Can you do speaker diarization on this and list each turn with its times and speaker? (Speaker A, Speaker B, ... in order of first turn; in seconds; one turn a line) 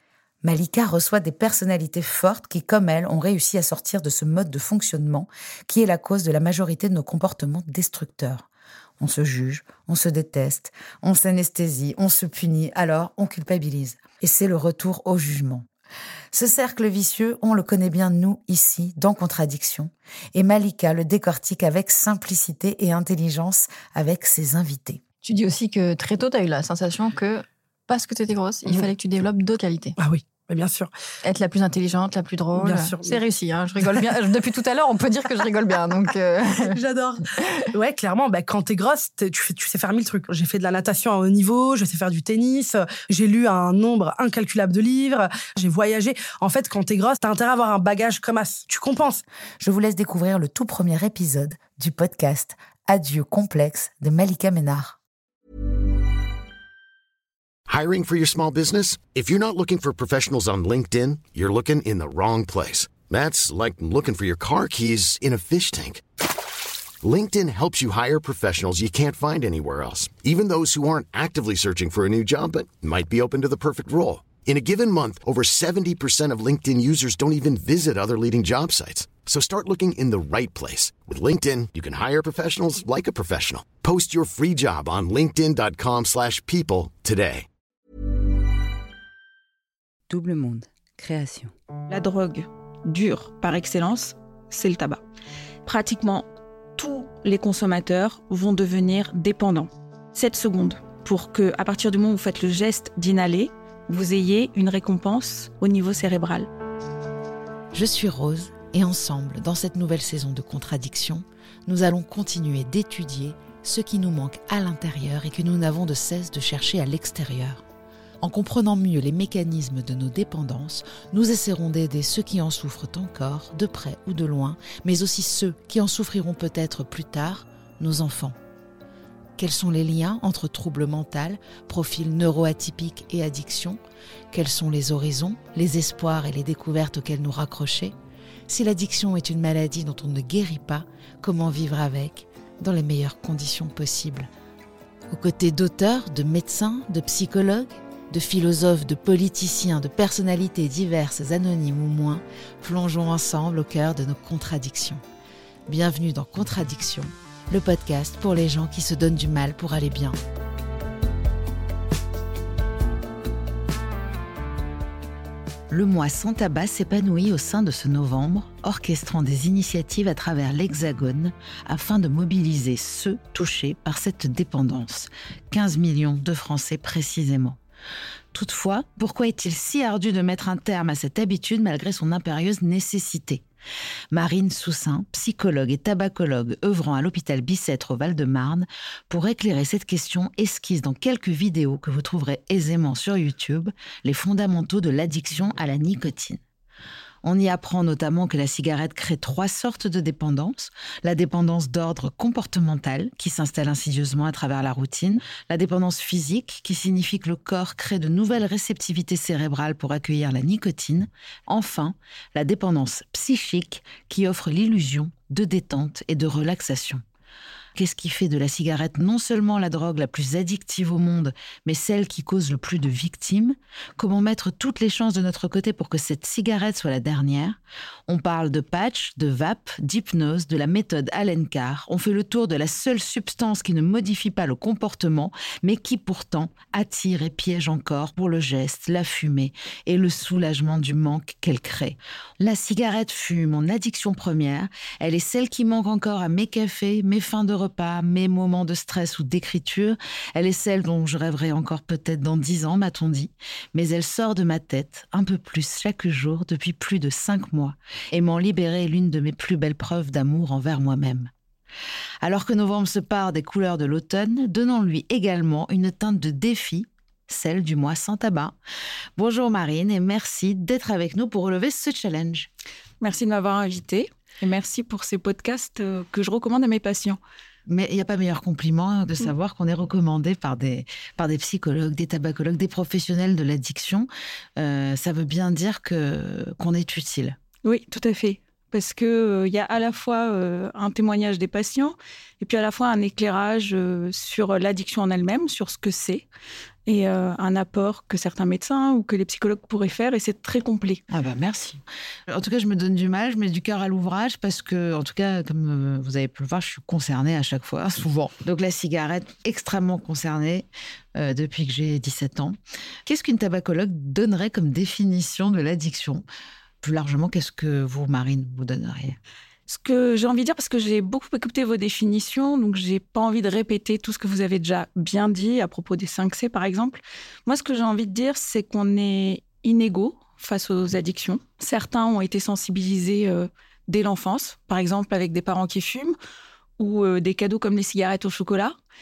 Speaker A: 0.4-8.5
Speaker A: 9.0-15.7
Speaker A: 16.3-25.0
Speaker B: 25.2-29.9
Speaker C: 30.0-30.9
Speaker B: 31.2-36.8
Speaker C: 32.5-33.2
Speaker C: 36.6-49.2
Speaker A: 49.6-55.0
Speaker D: 57.7-66.0
Speaker D: 67.0-87.5
Speaker B: 90.1-91.5
Speaker E: 91.9-95.0
Speaker E: 95.6-106.5
Speaker A: 107.7-117.6
Speaker A: 118.2-128.4
Speaker A: 129.4-133.8
Speaker A: 134.3-137.9
Speaker A: 138.5-144.3
Speaker A: 145.1-155.0
Speaker A: 155.7-160.2
Speaker A: 165.7-177.6
Speaker A: 178.3-183.4
Speaker A: 184.1-196.4
Speaker A: 197.2-217.0
Speaker A: 217.7-261.3
Speaker A: 262.2-268.6
Speaker A: 269.1-272.5
Speaker E: 273.0-277.2
Speaker A: 277.6-287.4
Speaker E: 287.6-296.2
Speaker E: 296.9-301.0
Speaker A: 301.1-316.2
Speaker A: 316.8-319.2
Speaker E: 319.7-336.1
Speaker E: 336.8-338.7